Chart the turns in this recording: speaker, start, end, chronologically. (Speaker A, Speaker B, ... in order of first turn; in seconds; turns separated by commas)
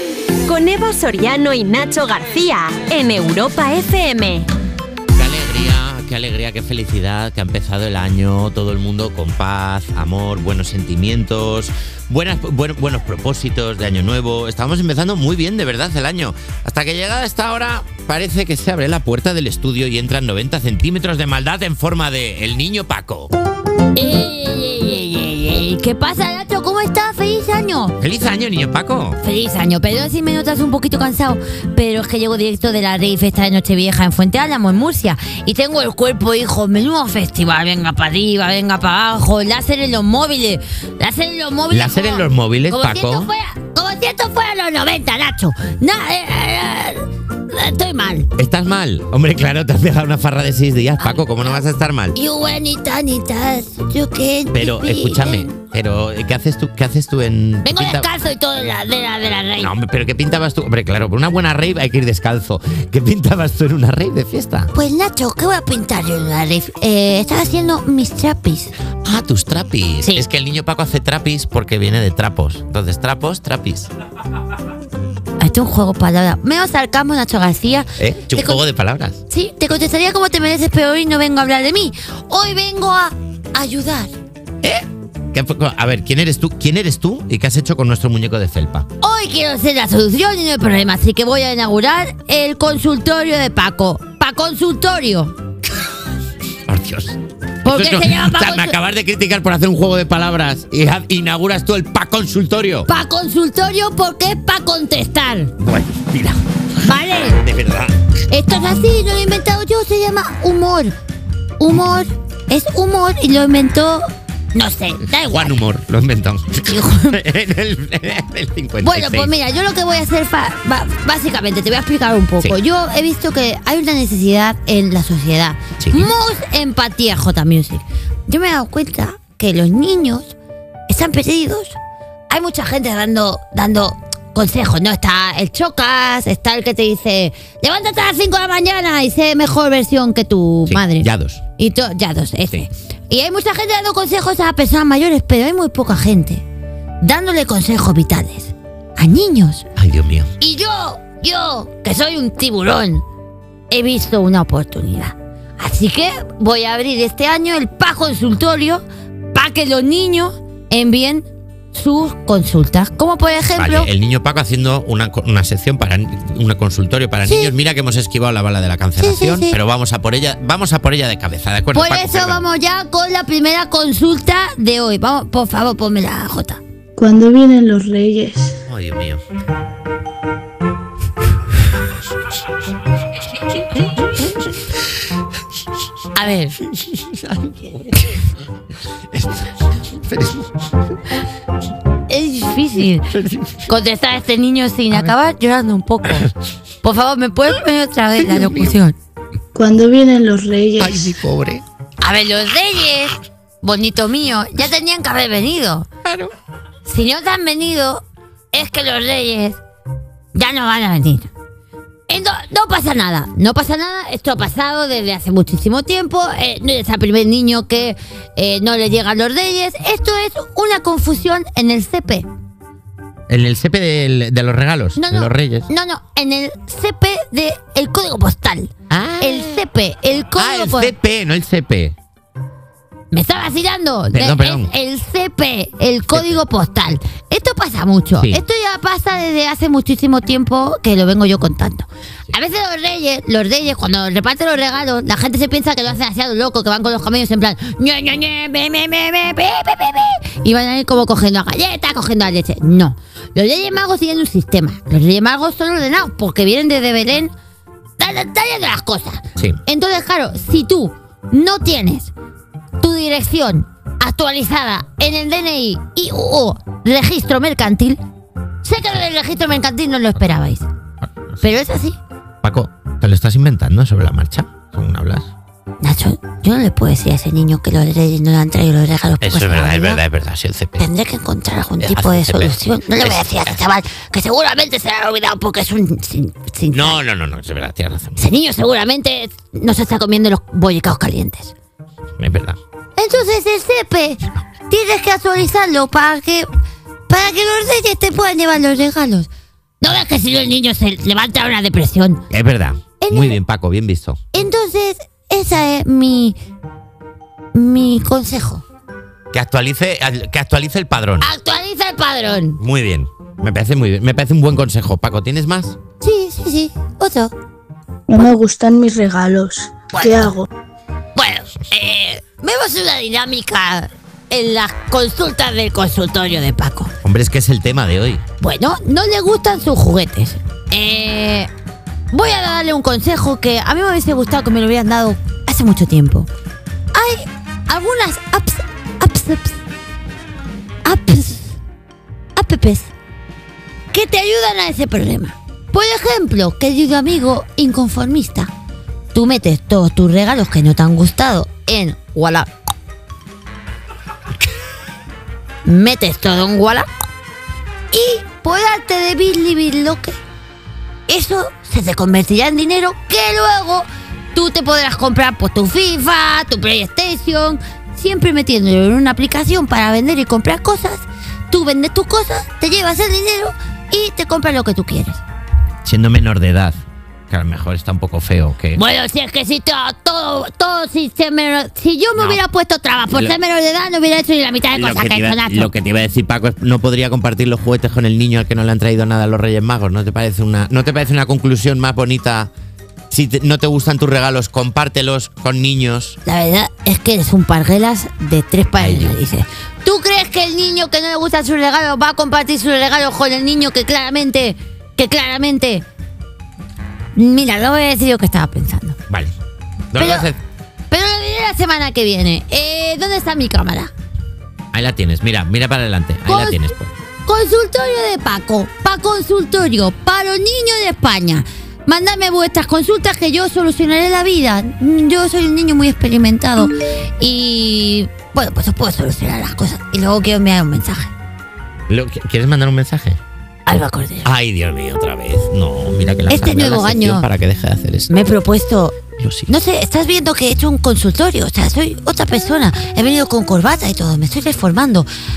Speaker A: 0.4-4.5, Speaker B: 5.2-23.3, Speaker C: 23.9-28.0, Speaker B: 28.0-29.2, Speaker C: 29.2-48.3, Speaker B: 41.7-43.3, Speaker B: 48.4-52.2, Speaker C: 51.0-55.5, Speaker B: 54.5-58.1, Speaker C: 57.6-59.7, Speaker B: 59.6-64.7, Speaker C: 64.7-68.7, Speaker B: 69.0-73.9, Speaker C: 75.4-78.6, Speaker B: 78.0-79.2, Speaker C: 79.3-84.1, Speaker B: 84.6-88.9, Speaker C: 89.0-95.3, Speaker B: 96.7-102.9, Speaker C: 97.6-98.8, Speaker C: 102.9-105.5, Speaker B: 105.6-106.4, Speaker C: 106.8-107.4, Speaker B: 107.3-108.0, Speaker C: 108.3-111.0, Speaker C: 111.6-115.5, Speaker B: 115.1-119.3, Speaker C: 116.7-117.2, Speaker C: 118.8-130.4, Speaker B: 125.8-126.1, Speaker C: 130.9-131.8, Speaker C: 132.3-146.4, Speaker B: 140.7-141.4, Speaker C: 147.0-149.7, Speaker B: 149.8-150.3, Speaker C: 150.4-153.0, Speaker C: 153.7-163.9, Speaker B: 163.6-172.4, Speaker C: 167.2-167.5, Speaker C: 169.0-169.6, Speaker C: 171.7-176.6, Speaker D: 177.0-178.5, Speaker B: 178.7-179.2, Speaker C: 186.1-186.6, Speaker B: 186.7-188.2, Speaker B: 189.1-190.6, Speaker C: 192.1-193.1, Speaker B: 193.1-193.7, Speaker C: 193.7-196.3, Speaker C: 196.8-199.0, Speaker B: 198.2-198.8, Speaker D: 199.6-201.1, Speaker B: 200.8-201.6, Speaker C: 202.0-205.9, Speaker B: 206.1-206.3, Speaker C: 206.8-209.6, Speaker C: 210.3-211.3, Speaker C: 212.1-222.3, Speaker B: 223.3-225.7, Speaker C: 225.0-230.9, Speaker B: 228.9-229.6, Speaker B: 230.4-231.9, Speaker C: 233.1-257.3, Speaker B: 234.1-234.7, Speaker B: 236.1-236.4, Speaker C: 258.0-262.1, Speaker C: 262.8-268.0, Speaker C: 268.6-270.7, Speaker C: 271.4-272.0, Speaker B: 272.4-275.3, Speaker C: 275.8-280.0, Speaker B: 279.2-280.9, Speaker C: 280.8-287.0, Speaker B: 281.8-283.7, Speaker B: 286.7-288.2, Speaker C: 288.2-291.5, Speaker B: 292.2-292.6, Speaker C: 293.0-296.5, Speaker C: 297.1-299.3, Speaker C: 299.8-302.2, Speaker B: 302.3-304.2, Speaker C: 303.0-303.4, Speaker C: 304.3-306.4, Speaker C: 307.5-308.6, Speaker B: 309.3-311.3, Speaker C: 311.2-312.6, Speaker B: 312.6-315.8, Speaker C: 316.0-317.3, Speaker D: 318.1-320.5, Speaker C: 320.0-320.2, Speaker C: 321.1-326.9, Speaker B: 327.0-328.2, Speaker C: 328.4-331.5, Speaker C: 332.1-336.3, Speaker C: 336.9-339.6, Speaker C: 340.9-341.6, Speaker C: 342.4-342.9, Speaker C: 343.9-348.5, Speaker C: 349.1-352.5, Speaker C: 355.6-356.9, Speaker C: 357.9-360.2, Speaker C: 361.1-375.2, Speaker B: 375.8-376.8, Speaker B: 377.3-378.8, Speaker C: 378.7-385.7, Speaker B: 382.2-382.4, Speaker B: 383.1-383.4, Speaker B: 384.8-392.5, Speaker B: 393.1-396.2, Speaker C: 396.2-405.9, Speaker B: 398.8-399.2, Speaker C: 407.1-409.0, Speaker B: 409.1-409.3, Speaker B: 409.9-410.4, Speaker C: 409.9-410.3, Speaker C: 410.9-413.9, Speaker B: 414.7-416.9, Speaker C: 416.3-416.6, Speaker C: 417.2-431.1, Speaker B: 431.9-433.2, Speaker C: 433.7-434.3, Speaker B: 434.2-438.1, Speaker C: 436.3-437.3, Speaker C: 438.1-445.1, Speaker B: 439.2-439.5